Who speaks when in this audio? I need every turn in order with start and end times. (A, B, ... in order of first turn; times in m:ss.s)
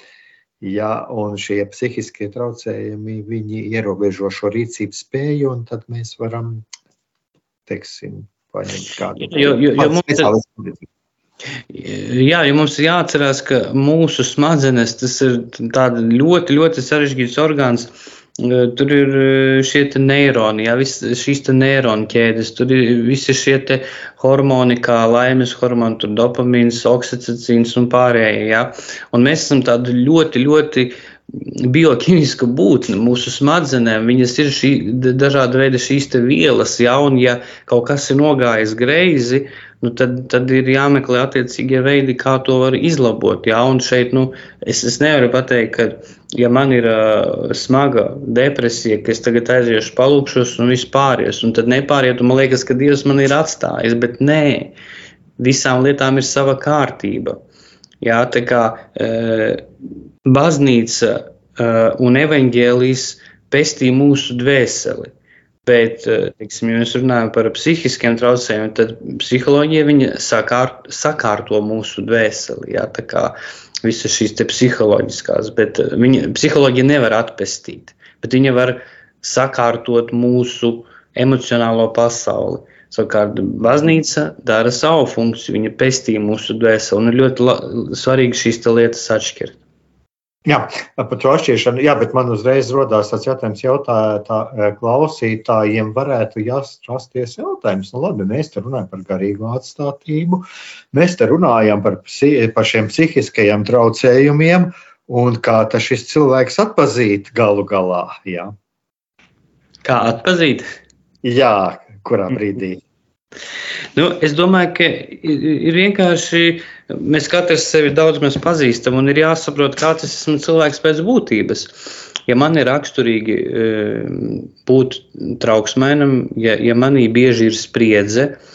0:00.6-0:06.6 A
0:07.7-0:10.9 A
0:09.2-0:10.3 B
0:11.7-0:54.7 B
0:55.4-0:57.4 B
0:58.0-0:59.6 B
1:00.2-1:05.1 B
1:05.6-1:29.6 B
1:30.5-1:48.5 A
1:49.8-1:50.6 B
1:51.2-1:52.8 A
1:54.0-2:01.7 B
2:02.3-2:08.4 B